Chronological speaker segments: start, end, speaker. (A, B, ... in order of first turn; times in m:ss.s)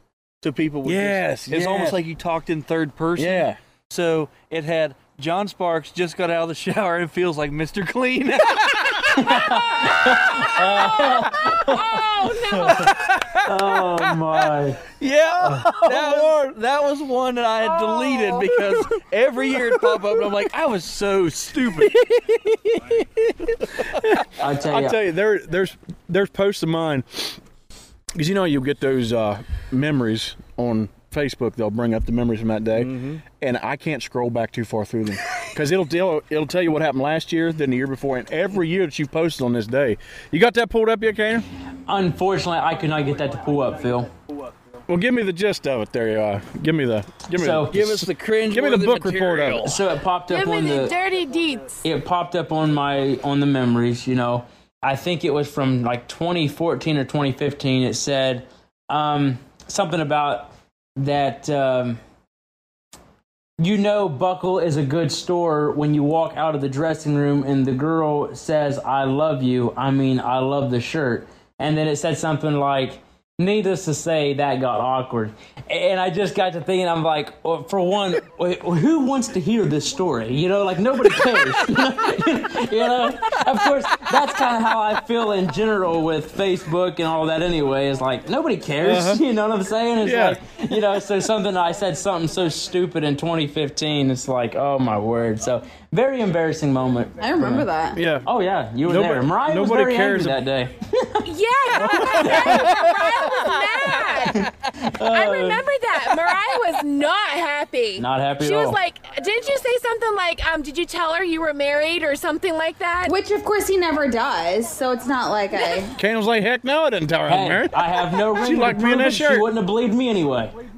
0:00.4-0:09.6 A
0:00.8-0:02.0 B
0:03.2-0:03.6 B
0:09.2-0:12.0 C
0:11.2-0:13.0 D
0:12.6-0:14.9 C
0:12.7-0:14.0 A
0:15.0-0:22.1 A
0:15.4-0:16.3 B
0:19.6-0:20.1 B
0:22.0-0:23.0 B
0:24.0-0:27.4 B
0:24.4-0:25.0 C
0:28.2-0:41.5 B
0:32.8-0:33.2 A
0:41.9-0:44.1 C
0:44.9-0:49.7 B
0:47.3-0:47.8 C
0:47.7-0:49.8 A
0:49.6-0:51.0 C
0:50.3-0:51.8 D
0:51.8-1:02.0 C
1:03.6-1:37.7 C
1:28.8-1:29.2 B
1:30.0-1:30.4 B
1:37.2-1:38.0 E
1:37.9-1:38.3 B
1:38.2-1:41.3 C
1:38.8-1:40.4 B
1:41.2-1:44.5 D
1:41.8-1:43.1 B
1:42.0-1:42.8 C
1:44.3-1:45.7 C
1:45.0-1:53.2 D
1:48.0-1:48.8 C
1:53.1-1:56.0 E
1:56.0-1:59.5 B
1:57.3-2:00.5 C